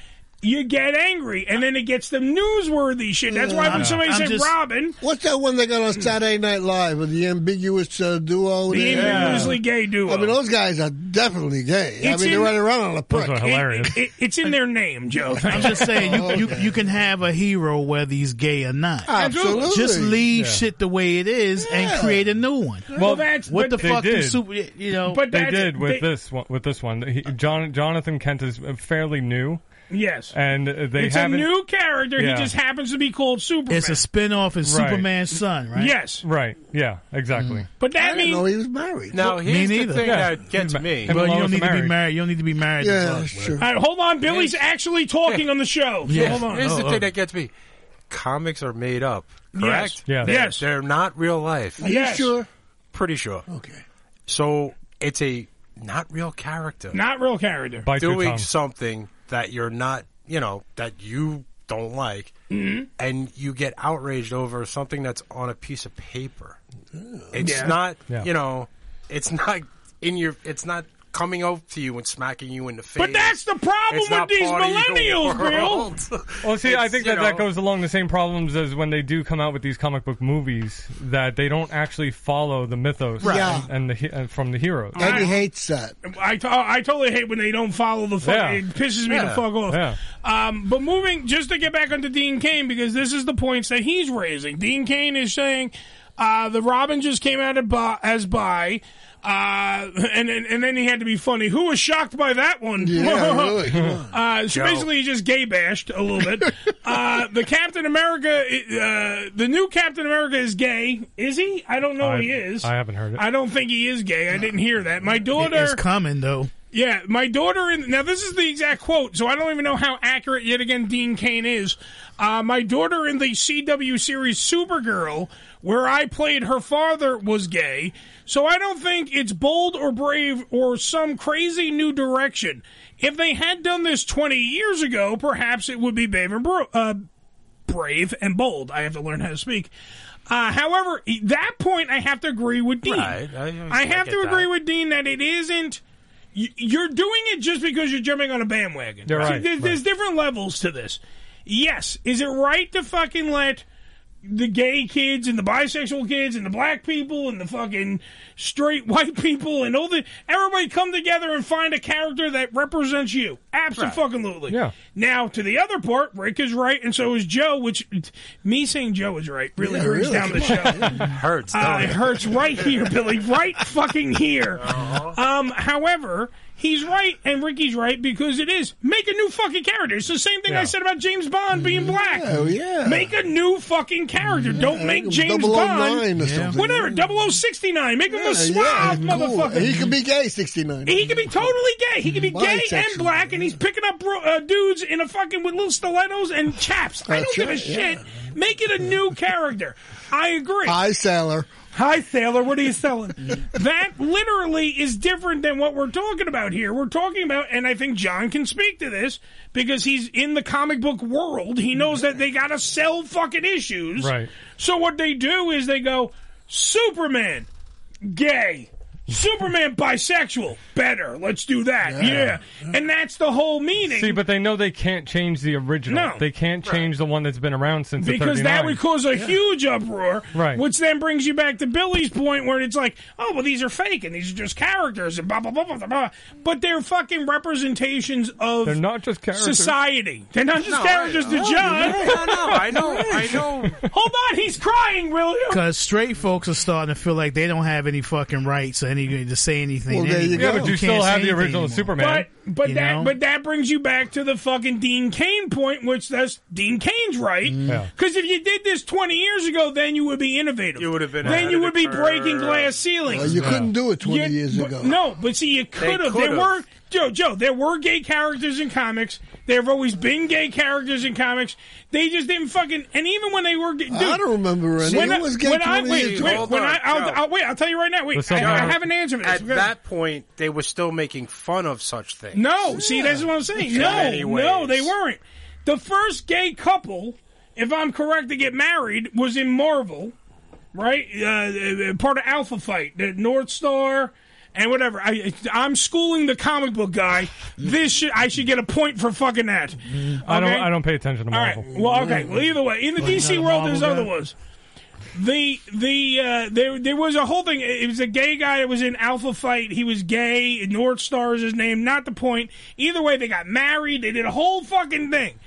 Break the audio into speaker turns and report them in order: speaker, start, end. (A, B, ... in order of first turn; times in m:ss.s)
0:00.4-0:05.0 A
0:03.3-0:03.8 B
0:03.6-0:04.5 C
0:05.0-0:13.5 B
0:08.7-0:10.3 A
0:08.9-0:09.5 D
0:12.0-0:12.5 A
0:13.1-0:14.0 D
0:13.4-0:16.1 A
0:15.5-0:16.7 B
0:15.5-0:25.2 C
0:19.1-0:20.2 B
0:19.1-0:19.7 A
0:20.3-0:20.6 D
0:21.6-0:22.2 B
0:22.9-0:24.4 D
0:23.0-0:23.9 A
0:25.1-0:26.1 A
0:25.2-0:29.6 D
0:29.9-0:30.3 A
0:30.3-0:31.5 D
0:30.9-0:34.0 A
0:32.2-0:32.5 D
0:33.7-0:36.0 C
0:34.6-0:35.1 D
0:35.8-0:36.2 A
0:36.1-0:37.7 D
0:37.3-0:37.6 C
0:37.8-0:38.4 A
0:38.0-0:39.3 B
0:39.1-0:41.2 E
0:39.2-0:40.5 C
0:40.0-0:42.0 D
0:41.0-0:43.6 C
0:42.8-0:43.6 B
0:43.6-0:46.7 A
0:44.2-0:44.6 E
0:46.0-0:47.1 C
0:46.1-0:47.5 E
0:48.1-0:51.8 E
0:49.5-0:50.6 A
0:50.0-0:50.5 D
0:51.8-0:52.5 B
0:51.8-0:52.3 A
0:52.9-0:53.4 E
0:53.5-0:53.8 B
0:54.3-0:57.0 E
0:56.9-0:57.9 A
0:57.8-0:58.5 D
0:58.0-1:02.3 E
1:02.5-1:02.9 A
1:03.0-1:06.6 E
1:06.9-1:07.3 B
1:07.3-1:13.4 E
1:07.4-1:07.7 A
1:13.0-1:15.9 A
1:13.9-1:17.5 E
1:16.4-1:25.2 D
1:23.2-1:23.7 B
1:23.2-1:23.6 E
1:25.0-1:26.0 B
1:25.0-1:25.3 A
1:26.0-1:43.6 A
1:28.2-1:28.6 D
1:29.1-1:29.4 E
1:29.7-1:30.0 D
1:42.8-1:44.1 B
1:44.1-1:55.8 A
1:44.5-1:44.9 E
1:52.0-1:53.2 D
1:55.3-1:56.5 C
1:56.7-2:17.0 A
2:17.7-2:19.7 A
2:20.3-2:23.2 A
2:22.8-2:24.5 E
2:23.7-2:25.8 A
2:26.3-2:33.6 A
2:29.1-2:29.8 D
2:34.2-2:50.9 A
2:44.5-2:44.7 D
2:49.6-2:51.0 B
2:51.0-2:52.6 E
2:51.5-3:02.3 A
2:54.6-2:55.1 E
3:00.5-3:00.7 D
3:01.6-3:03.1 B
3:02.8-3:09.8 A
3:04.5-3:07.1 B
3:06.2-3:06.6 C
3:08.1-3:11.5 B
3:10.8-3:20.8 A
3:12.1-3:13.5 B
3:17.1-3:18.0 B
3:20.6-3:21.5 B
3:21.7-3:37.5 A
3:34.0-3:34.3 D
3:38.0-3:44.2 A
3:41.8-3:42.6 B
3:43.8-3:48.8 D
3:45.9-3:46.2 A
3:48.0-3:58.8 A
3:50.3-3:50.6 D
3:58.6-3:59.8 D
3:59.3-4:03.4 A
4:00.6-4:03.8 E
4:01.5-4:02.1 B
4:02.3-4:03.7 D
4:03.9-4:05.6 A
4:05.5-4:12.0 C
4:09.9-4:10.8 B
4:10.3-4:12.3 D
4:12.0-4:34.2 A
4:12.6-4:13.2 C
4:17.5-4:17.9 C
4:20.8-4:22.8 E
4:23.1-4:25.0 B
4:23.4-4:23.6 D
4:25.8-4:26.6 E
4:33.9-4:36.5 B
4:34.8-4:39.7 A
4:34.8-4:35.2 E
4:35.9-4:37.2 E
4:38.1-4:38.8 D
4:38.3-4:42.4 E
4:42.3-4:50.1 A
4:42.7-4:44.2 B
4:43.7-4:44.9 E
4:50.7-5:00.7 A
4:59.9-5:00.2 C
5:00.2-5:01.7 D
5:01.3-5:04.3 A
5:01.8-5:02.4 B
5:03.0-5:04.1 C
5:05.1-5:15.4 A